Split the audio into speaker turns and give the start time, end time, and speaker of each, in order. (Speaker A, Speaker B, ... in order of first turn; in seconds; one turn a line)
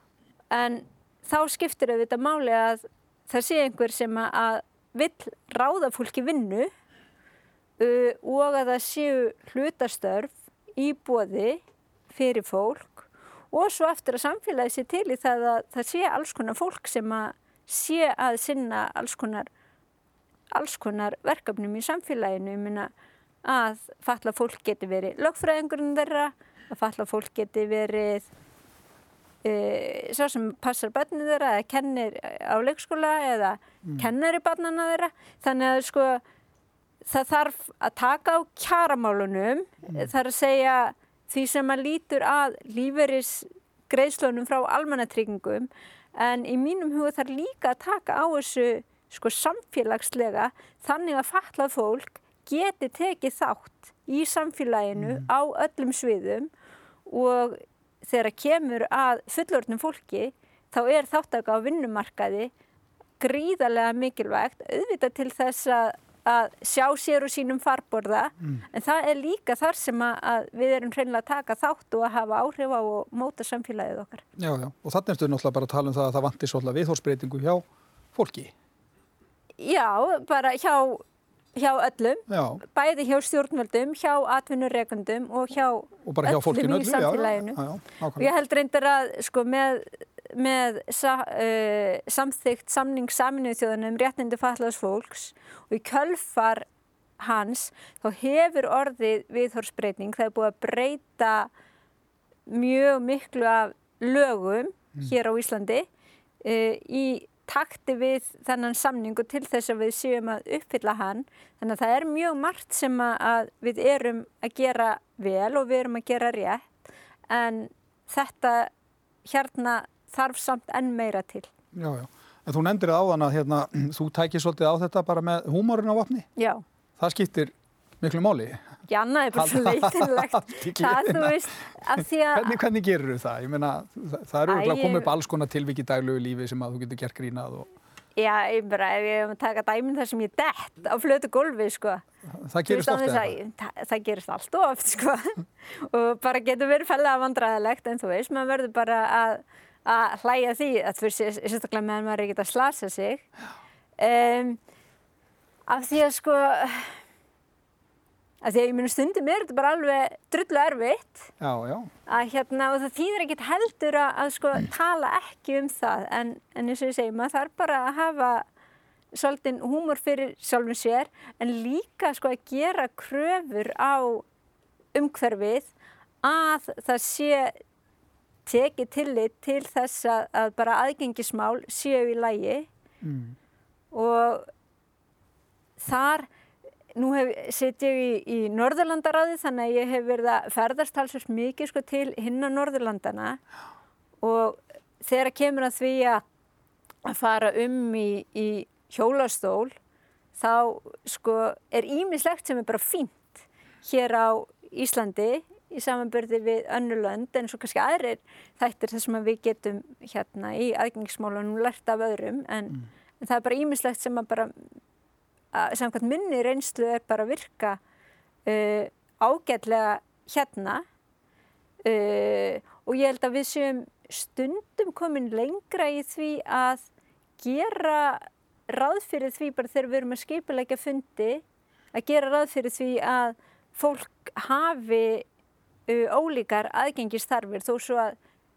Speaker A: 0.5-6.7
Speaker A: 7.8-19.5
Speaker A: 20.5-22.9
Speaker A: 23.4-28.3
Speaker A: 29.4-36.2
Speaker A: 37.0-56.5
Speaker B: 55.0-55.3
Speaker A: 57.1-62.5
Speaker A: 63.2-74.2
Speaker B: 74.4-78.5
Speaker A: 79.6-81.0
Speaker A: 81.5-87.6
Speaker B: 82.3-82.6
Speaker B: 86.0-88.3
Speaker A: 88.2-96.7
Speaker A: 97.2-101.5
Speaker A: 102.5-105.9
Speaker A: 106.4-116.8
Speaker A: 117.3-118.7
Speaker A: 119.2-121.5
Speaker B: 121.7-126.3
Speaker A: 126.4-126.6
Speaker B: 127.0-128.6
Speaker A: 128.9-132.6
Speaker B: 129.3-131.4
Speaker B: 132.0-137.7
Speaker A: 134.5-135.1
Speaker A: 138.2-142.0
Speaker B: 142.3-143.4
Speaker A: 142.7-153.2
Speaker A: 154.0-154.6
Speaker A: 155.7-157.0
Speaker A: 158.4-161.3
Speaker B: 161.4-161.9
Speaker A: 162.1-168.4
Speaker A: 169.1-174.3
Speaker A: 174.9-175.7
Speaker A: 176.2-177.5
Speaker A: 178.5-182.7
Speaker B: 183.0-183.4
Speaker A: 183.9-184.5
Speaker A: 185.8-186.3
Speaker A: 186.9-193.4
Speaker A: 194.2-196.2
Speaker A: 197.1-199.7
Speaker A: 200.4-214.7
Speaker A: 215.5-217.8
Speaker A: 218.5-220.8
Speaker A: 221.8-235.3
Speaker A: 235.9-238.2